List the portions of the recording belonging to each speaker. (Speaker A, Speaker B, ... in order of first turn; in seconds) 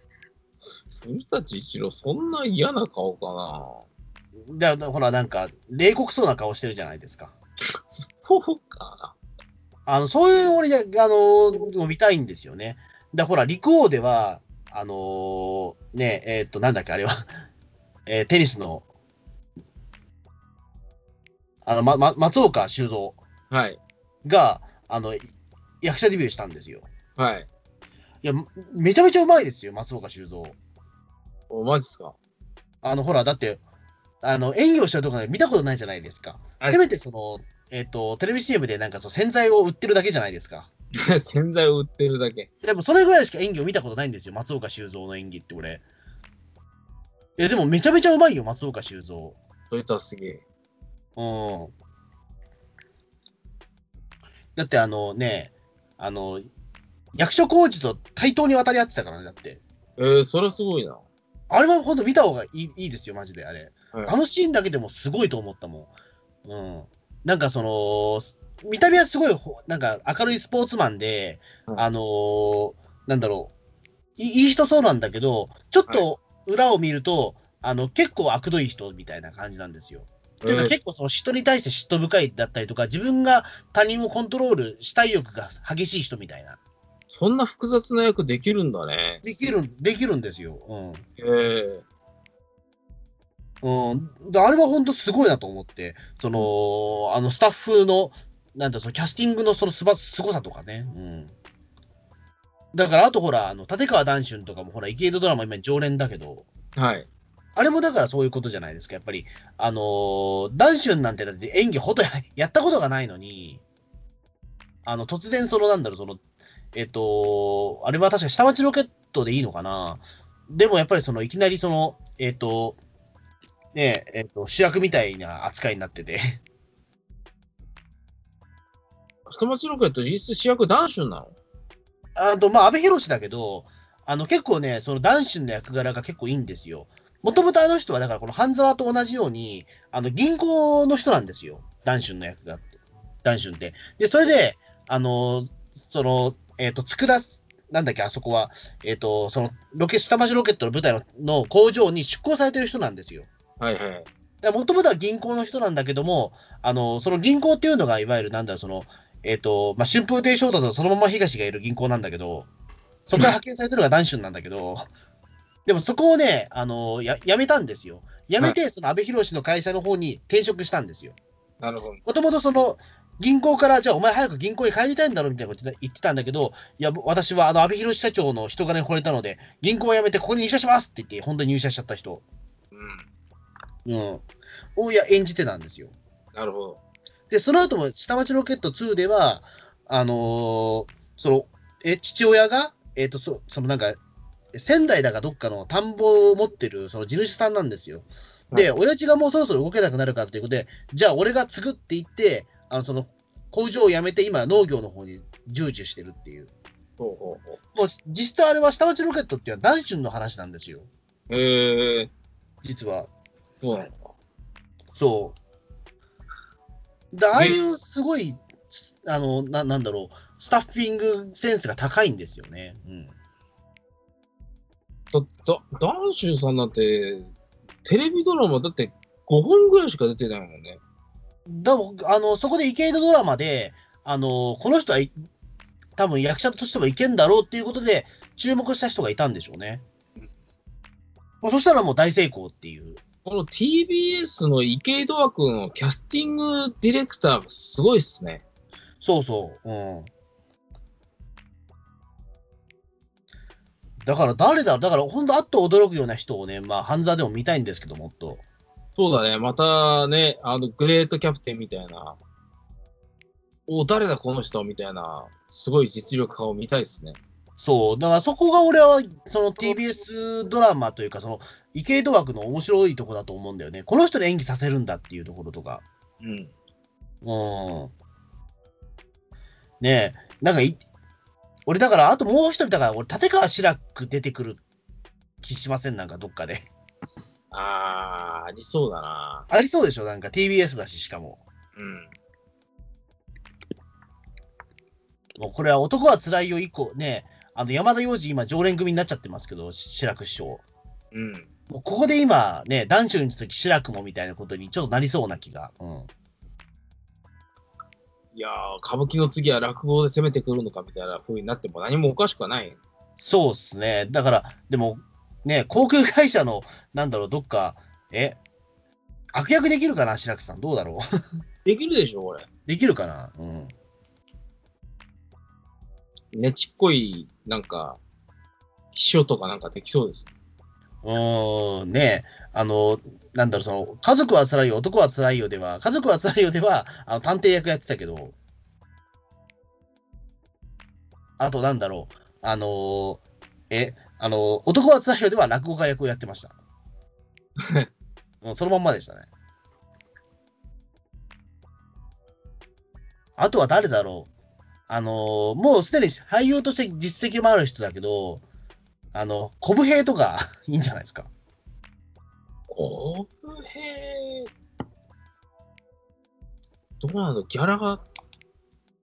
Speaker A: 0.9-3.9, 7.9-9.2, 23.5-23.8, 27.2-27.5, 31.5-32.2, 41.0-42.5, 49.7-50.4, 60.0-61.0, 80.4-80.8, 87.1-89.2, 91.2-91.8, 106.8-107.1, 129.3-131.3, 153.6-154.1, 171.6-172.0, 182.7-183.1, 186.3-186.8, 207.0-207.6, 211.3-212.1, 213.6-214.1, 217.3-217.6, 225.1-227.3, 227.8-230.8, 243.2-248.4, 259.0-262.2, 263.7-267.2, 276.2-276.5, 287.5-289.5, 291.8-292.1, 301.1-301.5, 308.3-312.8, 321.6-322.5, 326.3-328.0, 328.9-330.3, 347.6-347.9, 362.7-364.5, 367.0-368.1
Speaker B: 4.5-7.3, 9.9-17.3, 18.1-18.9, 21.6-23.2, 24.2-25.2, 25.8-26.9, 28.2-30.6, 32.8-33.6, 34.2-40.7, 42.6-45.8, 47.4-49.4, 51.2-51.7, 54.6-56.5, 57.1-59.6, 61.5-65.9, 66.5-73.5, 74.2-86.6, 89.2-91.0, 93.6-101.3, 102.7-106.5, 107.6-113.6, 114.8-116.2, 116.7-122.8, 123.7-126.4, 132.2-142.7, 143.2-153.3, 154.4-162.5, 163.1-164.9, 165.7-171.2, 172.1-182.2, 183.9-184.2, 184.8-185.9, 187.3-194.0, 194.5-206.5, 207.8-210.9, 212.6-213.1, 214.9-215.4, 217.1-223.1, 231.5-235.1, 236.0-239.8, 241.4-243.0, 249.0-250.1, 254.0-258.4, 267.6-275.8, 277.2-277.9, 279.8-280.8, 281.7-284.6, 285.4-286.7, 289.5-291.4, 295.4-300.6, 301.7-306.1, 313.2-318.4, 319.3-321.0, 322.7-323.7, 331.0-338.4, 341.4-346.6, 348.4-349.3, 353.4-354.3, 354.9-358.4, 359.1-361.3